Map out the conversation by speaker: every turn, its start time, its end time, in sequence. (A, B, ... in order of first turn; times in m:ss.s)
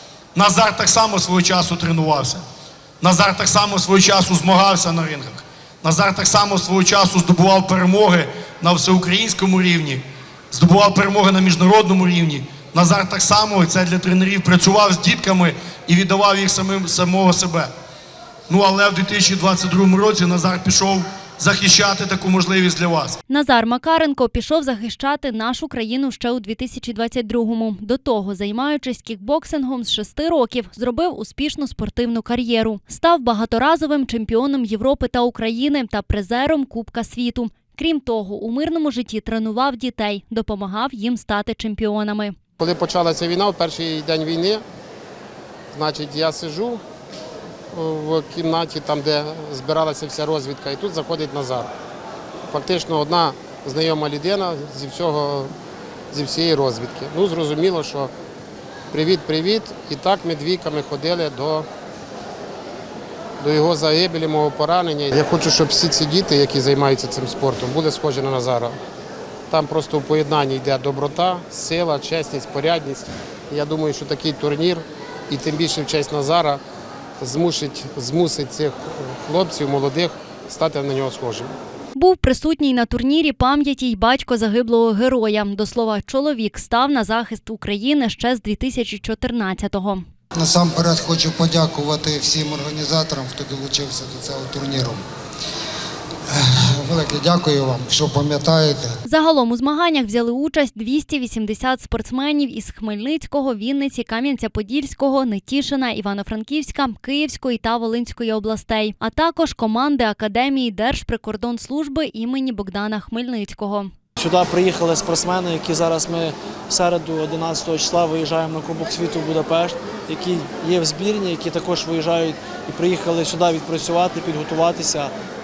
0:00.3-0:02.4 A
0:03.0-0:17.7 A
0:18.5-0:23.2 A
0:23.3-0:42.4 B
0:42.6-0:44.6 C
0:45.7-0:46.8 C
0:47.7-0:51.7 C
0:52.5-0:55.5 C
0:56.1-0:58.1 C
0:58.9-1:01.7 C
1:03.4-1:08.8 C
1:09.5-1:16.6 C
1:17.2-1:21.5 C
1:21.9-1:30.0 B
1:30.4-1:35.0 D
1:36.3-1:39.0 D
1:39.0-1:53.9 B
1:54.2-2:05.1 E